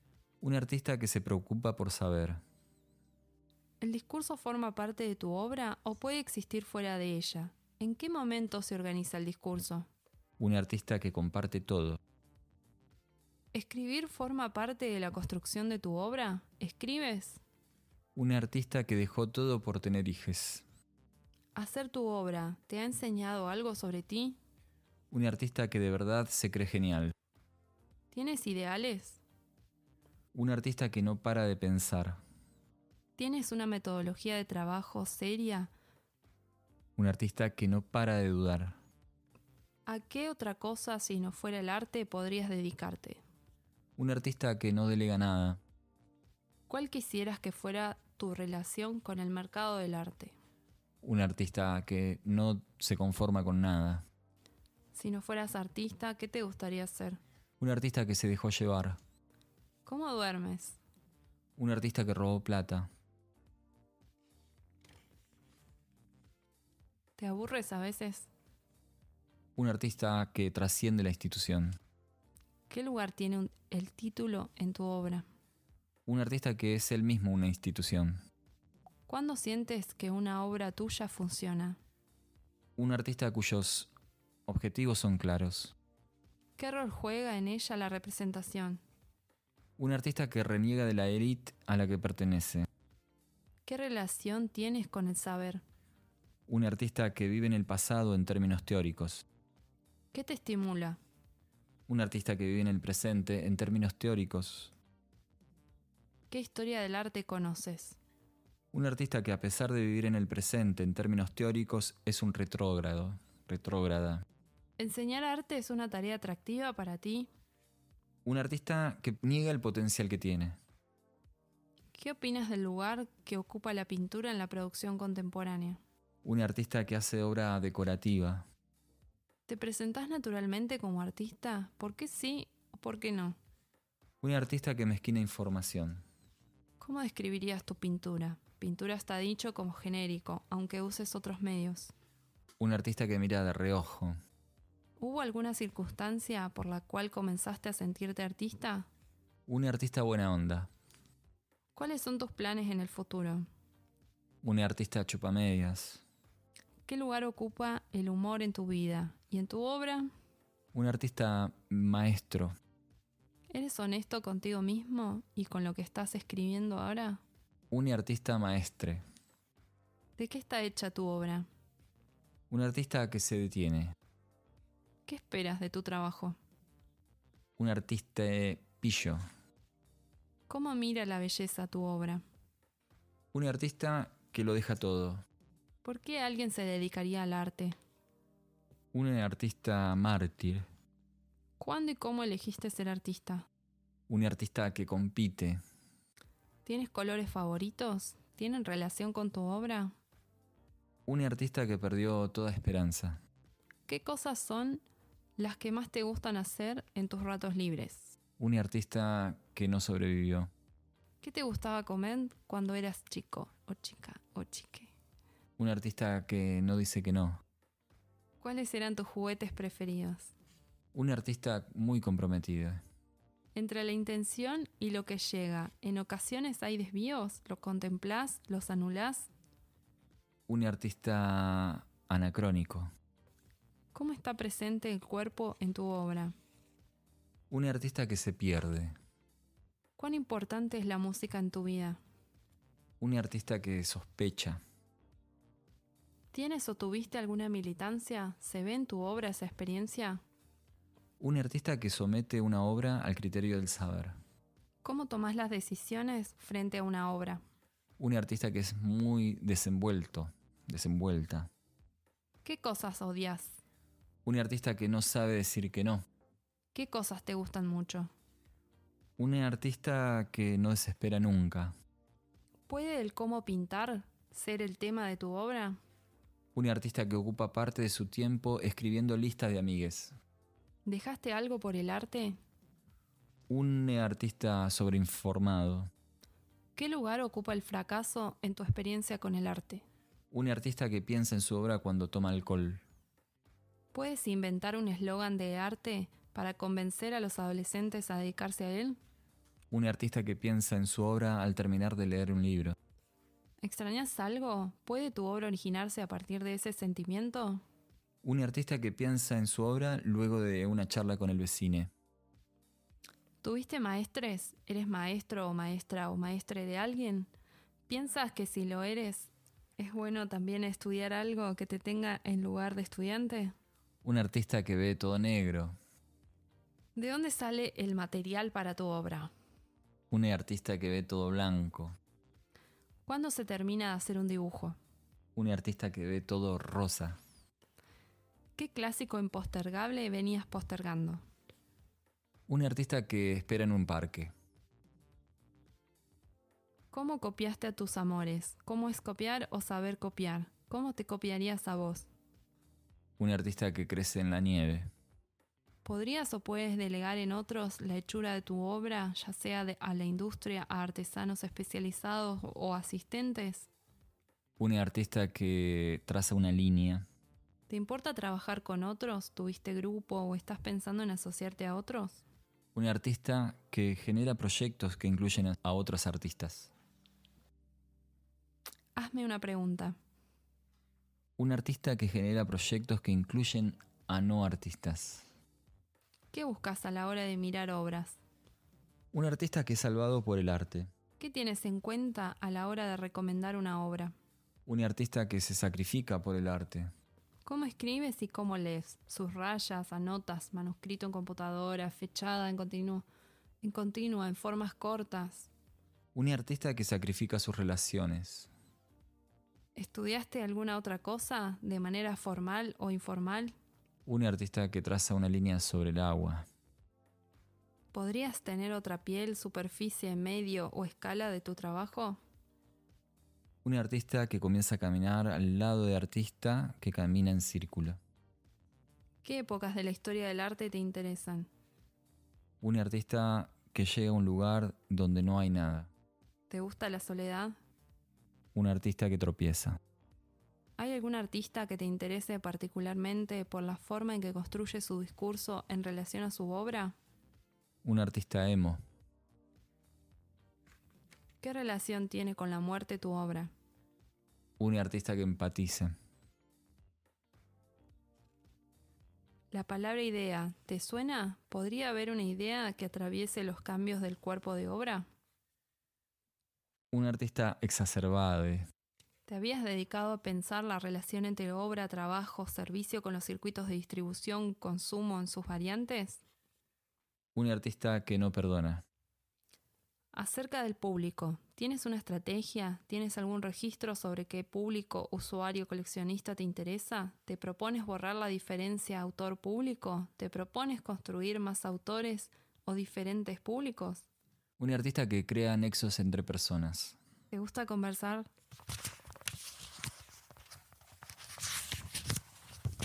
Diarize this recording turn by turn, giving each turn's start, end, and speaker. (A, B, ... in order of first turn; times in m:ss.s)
0:00.4-0:02.4 A
0:03.8-0:09.9 B
0:10.4-0:12.0 A
0:13.5-0:17.4 B
0:18.1-0:20.6 A
0:21.5-0:24.4 B
0:25.1-0:27.1 A
0:28.1-0:29.2 B
0:30.3-0:32.2 A
0:33.2-0:35.7 B
0:37.0-0:38.8 A
0:39.8-0:43.2 B
0:44.0-0:45.6 A
0:46.7-0:50.4 B
0:51.0-0:54.0 A
0:54.9-0:57.2 B
0:57.6-0:59.0 A
0:59.8-1:00.8 B
1:01.6-1:02.9 A
1:07.2-1:08.3 B
1:09.6-1:11.8 A
1:12.7-1:15.2 B
1:16.0-1:18.2 A
1:19.1-1:21.8 B
1:22.8-1:23.9 A
1:24.4-1:25.7 A
1:26.6-1:28.8 B
1:29.8-1:32.7 A
1:33.6-1:35.6 B
1:36.5-1:39.2 A
1:40.1-1:41.0 B
1:41.9-1:44.7 A
1:46.3-1:48.0 B
1:48.7-1:54.2 A
1:54.8-1:57.3 B
1:58.2-2:00.6 A
2:01.9-2:05.8 B
2:06.2-2:08.4 A
2:09.5-2:13.4 B
2:14.2-2:16.0 A
2:16.8-2:21.9 B
2:22.6-2:24.1 A
2:25.0-2:28.9 B
2:29.5-2:30.7 A
2:31.8-2:33.5 B
2:34.4-2:36.0 A
2:36.9-2:40.1 B
2:40.7-2:42.5 A
2:43.5-2:47.2 B
2:47.7-2:49.0 A
2:50.2-2:51.5 B
2:52.5-2:53.9 A
2:55.1-2:56.4 B
2:57.6-2:59.2 A
3:00.5-3:02.2 B
3:03.3-3:05.2 A
3:05.8-3:07.7 B
3:08.9-3:10.7 A
3:11.6-3:13.5 B
3:14.1-3:15.6 A
3:16.6-3:19.9 B
3:21.1-3:23.2 A
3:23.9-3:24.8 B
3:25.4-3:28.2 B
3:28.4-3:30.5 A
3:31.2-3:34.9 B
3:35.6-3:37.4 A
3:38.4-3:40.3 B
3:40.9-3:42.8 A
3:43.5-3:49.3 B
3:50.5-3:52.9 A
3:53.9-3:56.3 B
3:57.5-3:58.9 A
4:00.0-4:02.0 B
4:03.0-4:04.6 A
4:06.3-4:10.2 B
4:11.2-4:14.2 A
4:14.8-4:17.4 B
4:18.0-4:21.5 A
4:22.4-4:23.6 B
4:24.2-4:26.0 A
4:26.7-4:28.1 B
4:29.2-4:31.7 A
4:32.7-4:35.8 B
4:36.5-4:40.2 A
4:40.8-4:42.4 B
4:43.5-4:45.9 A
4:46.8-4:49.8 B
4:50.3-4:52.8 A
4:53.9-4:59.0 B
4:59.7-5:02.8 A
5:03.6-5:07.6 B
5:08.2-5:11.9 A
5:13.4-5:17.3 B
5:17.9-5:23.5 B
5:24.0-5:25.7 A
5:27.0-5:29.3 B
5:30.1-5:32.0 A
5:33.0-5:34.8 B
5:35.3-5:37.2 A
5:38.6-5:41.2 B
5:42.5-5:44.3 A
5:46.9-5:52.1 B
5:53.2-5:54.9 A
5:55.8-6:03.7 B
6:04.6-6:07.0 A
6:07.7-6:12.2 B
6:12.7-6:16.7 A
6:19.0-6:20.0 B
6:21.4-6:25.3 A
6:26.3-6:28.2 B
6:29.1-6:30.9 A
6:31.2-6:34.1 B
6:34.6-6:36.9 A
6:37.4-6:43.1 B
6:43.6-6:45.5 B
6:46.1-6:48.5 A
6:49.8-6:53.5 B
6:54.0-6:56.4 A
6:57.9-7:02.2 B
7:03.6-7:08.0 A
7:09.2-7:11.5 B
7:12.6-7:15.9 A
7:16.5-7:17.6 B
7:18.5-7:19.8 A
7:20.8-7:26.9 B
7:27.8-7:28.8 A
7:31.4-7:33.5 B
7:34.6-7:35.9 A
7:39.5-7:45.1 B
7:46.9-7:48.7 A
7:49.3-7:56.2 B
7:57.3-7:58.8 A
8:00.1-8:14.0 B
8:14.6-8:17.0 A
8:17.3-8:18.3 B